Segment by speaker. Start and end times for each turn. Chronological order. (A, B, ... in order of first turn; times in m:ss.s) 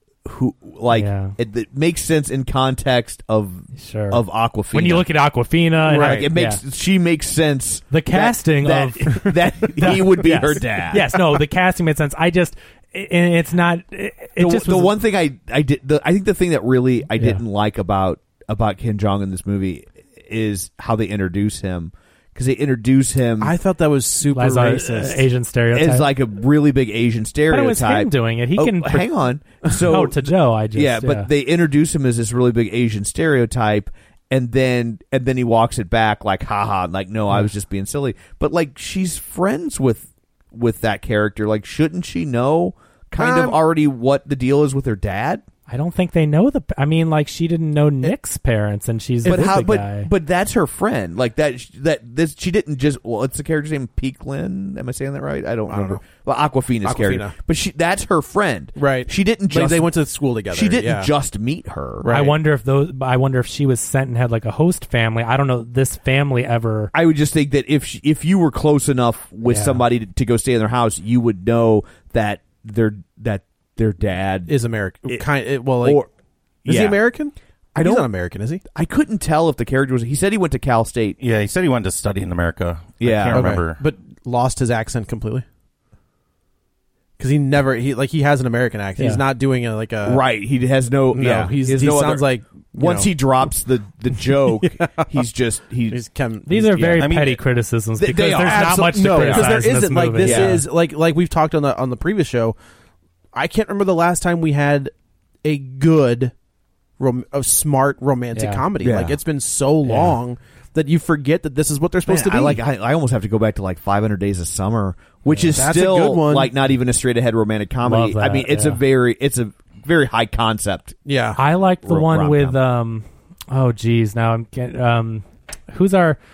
0:00.2-0:05.0 A
0:00.9-0:01.3 B
0:03.7-0:06.6 B
0:05.8-0:06.2 C
0:05.9-0:11.2 A
0:07.9-0:14.9 B
0:14.4-0:23.5 A
0:23.4-0:25.2 C
0:24.3-0:26.1 B
0:25.7-0:45.4 A
0:27.5-0:29.1 B
0:29.7-0:31.3 B
0:43.2-0:43.6 C
0:45.7-0:50.1 B
0:49.2-0:59.9 A
0:55.7-0:56.0 C
0:56.8-0:57.3 C
0:58.8-1:01.1 C
1:00.5-1:02.1 A
1:02.0-1:02.4 C
1:02.1-1:06.9 B
1:06.9-1:14.6 A
1:09.4-1:09.8 B
1:14.5-1:16.0 C
1:15.8-1:16.1 A
1:16.6-1:17.0 A
1:16.6-1:18.6 C
1:17.7-1:18.1 A
1:18.7-1:21.2 A
1:21.2-1:23.8 D
1:23.0-1:23.6 A
1:23.3-1:25.4 C
1:27.2-1:30.2 C
1:30.0-1:36.0 A
1:31.1-1:33.1 C
1:34.3-1:35.0 C
1:35.9-1:36.9 C
1:36.4-1:40.6 B
1:36.6-1:37.1 A
1:37.0-1:37.4 D
1:38.0-1:40.6 A
1:38.4-1:42.6 C
1:43.3-1:44.9 C
1:45.4-1:46.3 C
1:47.0-1:52.6 C
1:48.3-1:48.6 B
1:48.8-1:49.2 A
1:49.8-1:50.1 B
1:52.0-2:01.0 A
1:55.2-1:55.6 B
1:55.5-1:56.5 C
1:57.8-1:58.8 B
2:01.0-2:01.4 C
2:01.4-2:06.2 B
2:01.8-2:02.6 A